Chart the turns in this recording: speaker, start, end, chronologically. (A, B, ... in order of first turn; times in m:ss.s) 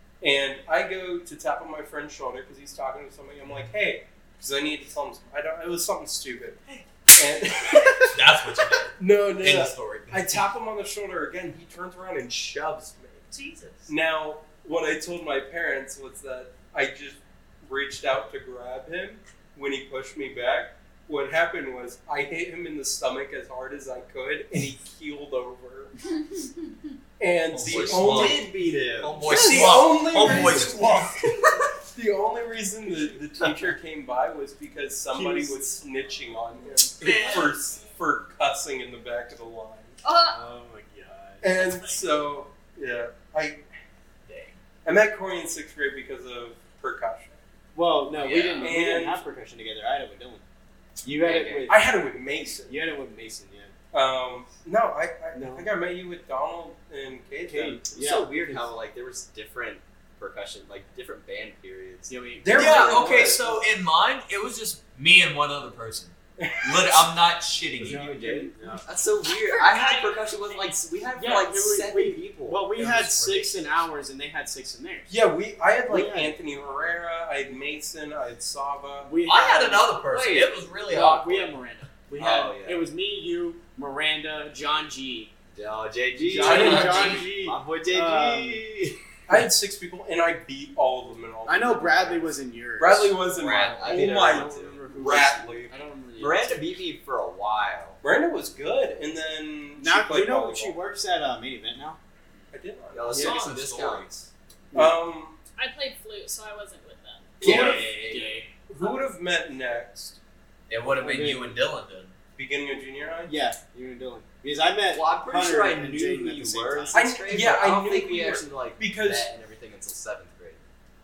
0:00.2-0:06.6 A
0:07.1-0:08.2 A
0:08.1-0:10.5 B
0:09.0-0:13.3 A
0:13.3-0:13.9 B
0:13.9-0:25.9 A
0:26.3-0:26.7 C
0:27.2-0:28.5 A
0:27.5-0:31.2 B
0:27.6-0:29.6 D
0:29.2-0:40.0 A
0:35.1-0:35.6 E
0:37.0-0:37.6 B
0:40.0-0:40.4 C
0:40.3-0:41.9 E
0:41.4-0:43.6 A
0:44.2-0:44.6 B
0:44.8-0:47.4 A
0:47.7-0:50.4 E
0:48.1-0:48.8 B
0:48.6-0:49.2 A
0:51.0-0:51.8 E
0:51.2-0:51.7 D
0:51.7-0:52.8 A
0:52.6-0:53.7 E
0:53.9-0:57.8 A
0:55.3-0:55.7 E
0:57.5-0:58.7 E
0:57.9-1:02.1 D
1:02.1-1:03.3 E
1:02.4-1:03.5 A
1:02.5-1:08.1 B
1:06.4-1:07.1 A
1:07.8-1:08.8 E
1:07.8-1:12.7 D
1:09.3-1:10.8 C
1:11.2-1:15.1 E
1:12.8-1:13.8 B
1:15.1-1:19.1 A
1:15.9-1:16.4 E
1:19.0-1:20.0 E
1:19.2-1:21.6 B
1:20.1-1:20.6 D
1:20.9-1:25.3 E
1:22.2-1:22.8 D
1:25.5-1:28.9 D
1:26.1-1:28.7 E
1:26.4-1:27.3 B
1:26.4-1:27.2 A
1:29.3-1:35.7 A
1:31.5-1:33.3 E
1:33.4-1:34.1 B
1:33.4-1:34.8 D
1:33.8-1:36.8 E
1:36.2-1:38.0 D
1:38.0-1:40.8 A
1:39.8-1:42.0 E
1:42.5-1:43.6 A
1:42.9-1:44.2 D
1:43.1-1:44.0 B
1:44.7-1:45.0 E
1:44.7-1:45.4 A
1:45.6-1:47.3 C
1:47.4-1:48.5 E
1:47.4-1:48.2 B
1:47.4-1:47.8 A
1:47.4-1:47.8 D
1:48.7-1:50.2 A
1:50.7-1:52.2 B
1:51.0-1:51.6 E
1:52.4-1:53.3 A
1:53.3-1:57.0 E
1:54.9-2:00.6 D
1:56.9-1:59.3 A